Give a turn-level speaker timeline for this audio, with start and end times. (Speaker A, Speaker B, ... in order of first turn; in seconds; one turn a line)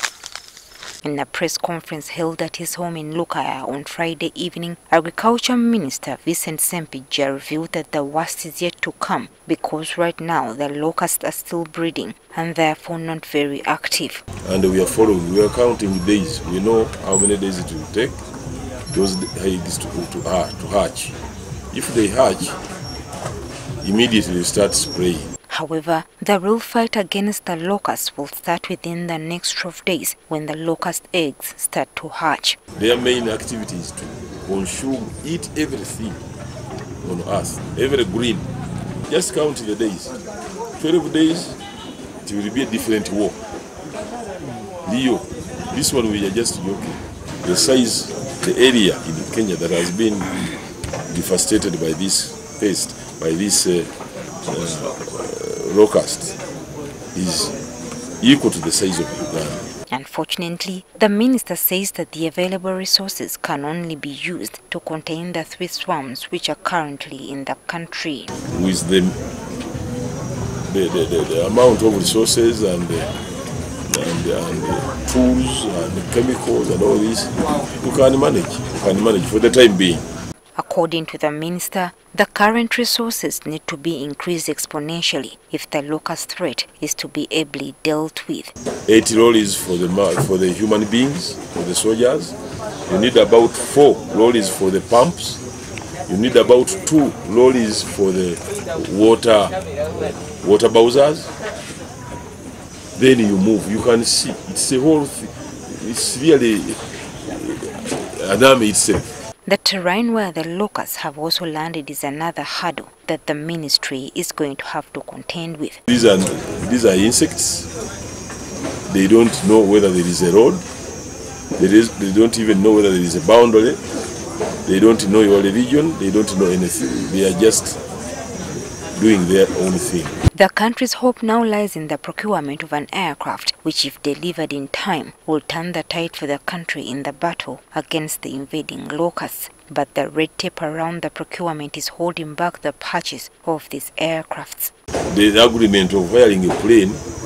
Speaker A: 1.0-14.2
Speaker B: 14.4-18.2
Speaker B: 18.9-21.1
Speaker B: 21.7-22.6
Speaker B: 23.8-25.3
Speaker A: 25.5-32.6
Speaker B: 32.8-36.2
Speaker B: 37.0-38.5
Speaker B: 39.1-40.1
Speaker B: 40.8-41.6
Speaker B: 42.2-43.4
Speaker B: 44.8-50.5
Speaker B: 51.1-53.9
Speaker B: 54.5-56.4
Speaker B: 57.1-57.6
Speaker B: 58.2-59.6
Speaker A: 59.9-68.3
Speaker B: 68.5-69.2
Speaker B: 70.7-73.1
Speaker B: 73.9-80.0
Speaker A: 80.5-88.5
Speaker B: 88.8-92.3
Speaker B: 92.9-95.4
Speaker B: 96.1-101.3
Speaker B: 103.0-109.2
Speaker A: 109.5-115.8
Speaker B: 115.9-117.7
Speaker B: 118.9-120.6
Speaker B: 121.6-123.8
Speaker B: 124.7-127.8
Speaker B: 128.9-130.2
Speaker A: 130.3-144.7
Speaker B: 145.1-147.0